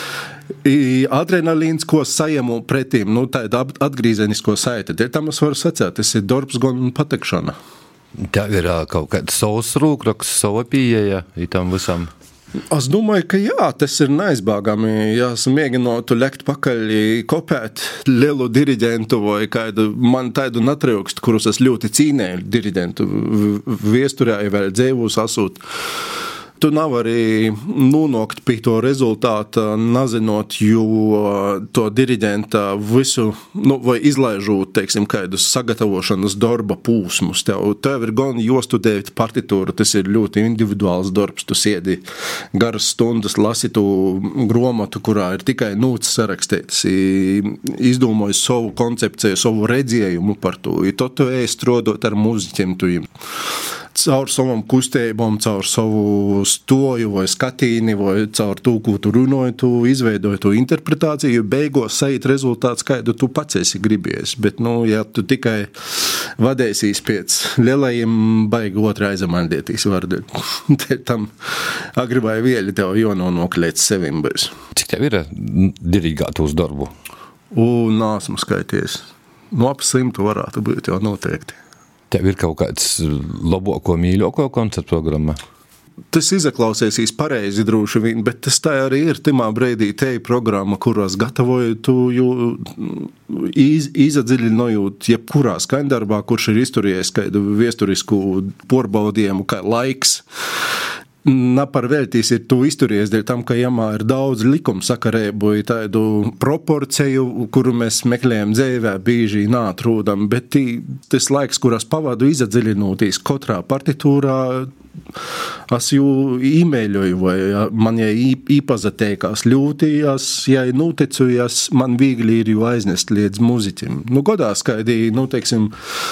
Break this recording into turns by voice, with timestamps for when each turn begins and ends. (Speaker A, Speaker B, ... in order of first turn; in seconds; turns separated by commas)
Speaker A: 0.6-7.6, Speaker B: 8.2-12.1, Speaker A: 12.7-25.6, Speaker A: 26.6-42.0, Speaker A: 42.5-53.1, Speaker A: 54.0-71.3, Speaker A: 72.0-74.5, Speaker B: 74.8-76.9, Speaker A: 77.5-81.6, Speaker B: 82.1-85.4, Speaker A: 86.1-100.2, Speaker A: 101.2-114.7, Speaker A: 115.7-125.7